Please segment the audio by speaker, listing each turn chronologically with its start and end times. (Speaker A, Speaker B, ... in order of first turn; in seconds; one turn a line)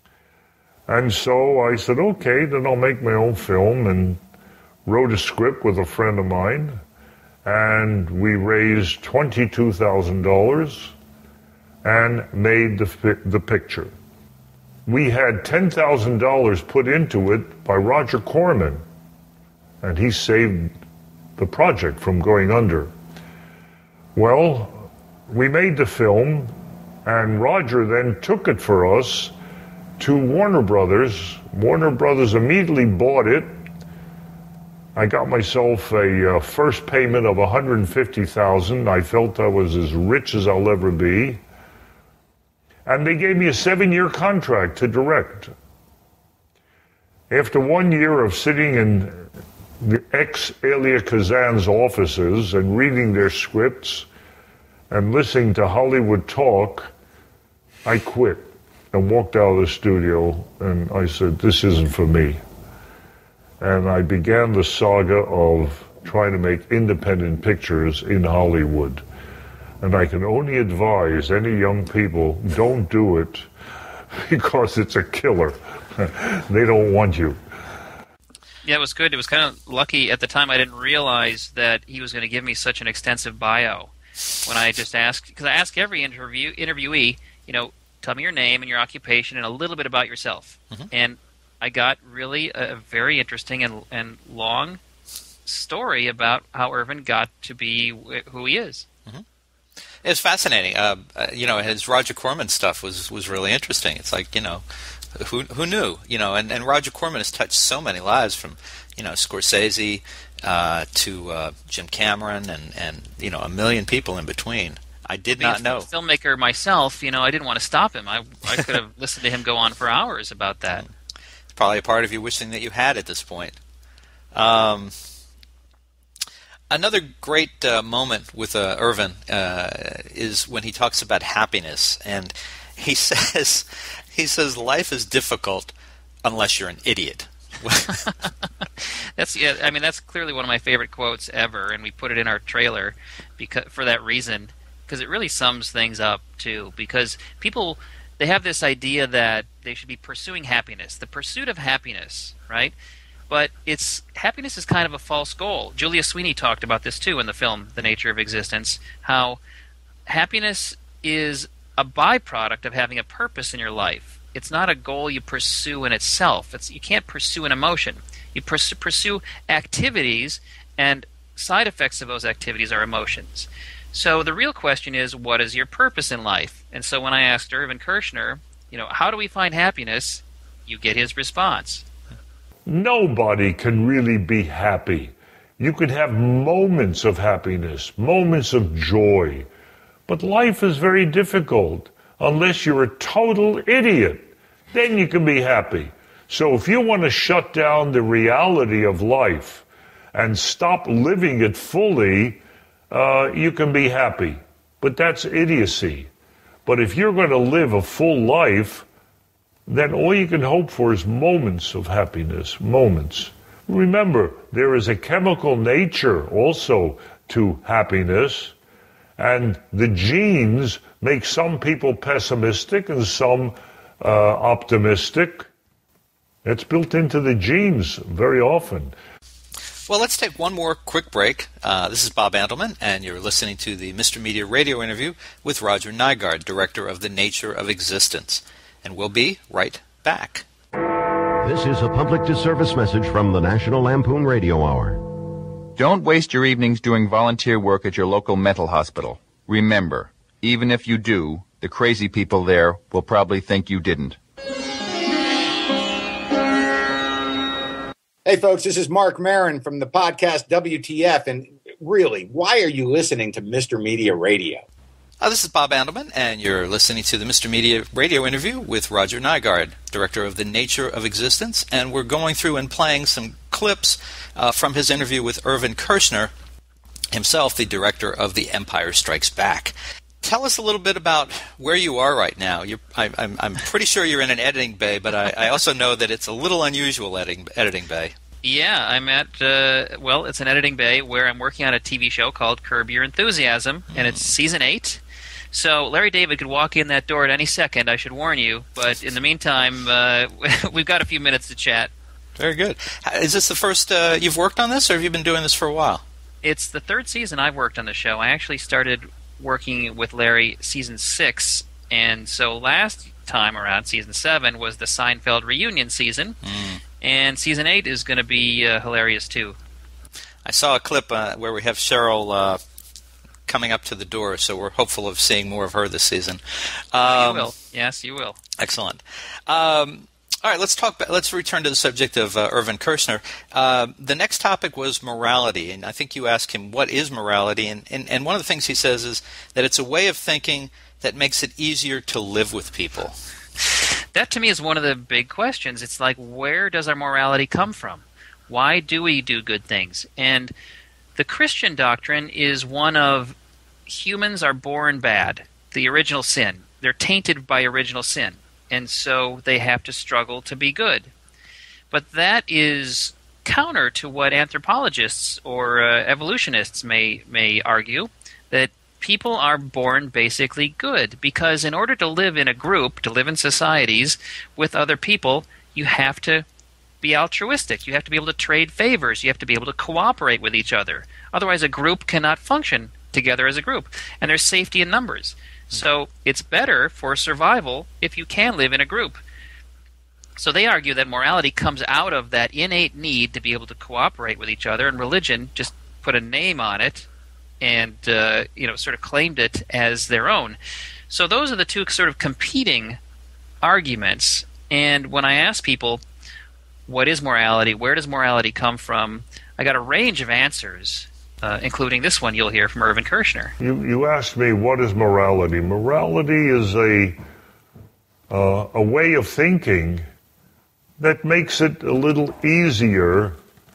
Speaker A: 0.9-4.2
Speaker A: 4.8-6.8
Speaker A: 7.4-10.9
Speaker A: 11.8-13.9
Speaker A: 14.8-18.8
Speaker A: 19.8-20.7
Speaker A: 21.4-22.9
Speaker A: 24.1-26.5
Speaker A: 27.0-29.3
Speaker A: 30.0-33.6
Speaker A: 34.9-41.4
Speaker A: 42.9-45.5
Speaker A: 47.3-54.1
Speaker A: 54.9-56.9
Speaker A: 57.8-62.4
Speaker A: 63.6-69.0
Speaker A: 69.8-73.5
Speaker A: 74.1-77.4
Speaker B: 78.6-83.9
Speaker B: 84.4-94.8
Speaker B: 95.5-98.8
Speaker C: 100.0-104.6
Speaker C: 105.2-115.9
Speaker B: 115.4-120.8
Speaker C: 121.5-123.6
Speaker C: 124.3-124.9
Speaker C: 126.7-135.7
Speaker C: 136.2-138.0
Speaker B: 139.2-152.7
Speaker B: 153.3-159.4
Speaker B: 160.1-181.8
Speaker A: 182.7-189.5
Speaker A: 190.1-206.1
Speaker A: 206.7-208.9
Speaker A: 209.7-218.5
Speaker A: 219.2-225.5
Speaker A: 226.4-228.9
Speaker C: 229.9-240.4
Speaker D: 241.4-245.0
Speaker E: 245.8-254.2
Speaker F: 258.2-264.6
Speaker C: 265.2-276.3
Speaker C: 277.1-288.1
Speaker B: 288.4-295.0
Speaker C: 294.0-294.2
Speaker B: 295.5-301.9
Speaker C: 302.4-306.0
Speaker B: 306.4-316.4
Speaker C: 316.4-316.8
Speaker B: 317.0-319.6
Speaker C: 320.4-322.6
Speaker C: 323.5-326.4
Speaker C: 326.9-327.5
Speaker B: 327.0-328.4
Speaker C: 328.6-343.2
Speaker B: 344.1-350.5
Speaker B: 351.2-353.3
Speaker B: 353.9-361.1
Speaker B: 361.9-376.4
Speaker B: 377.0-389.2
Speaker B: 390.4-397.1
Speaker B: 397.6-400.6
Speaker B: 401.1-403.0
Speaker B: 403.6-406.0
Speaker B: 406.9-413.5
Speaker A: 413.6-417.2
Speaker A: 418.3-420.1
Speaker A: 421.0-423.4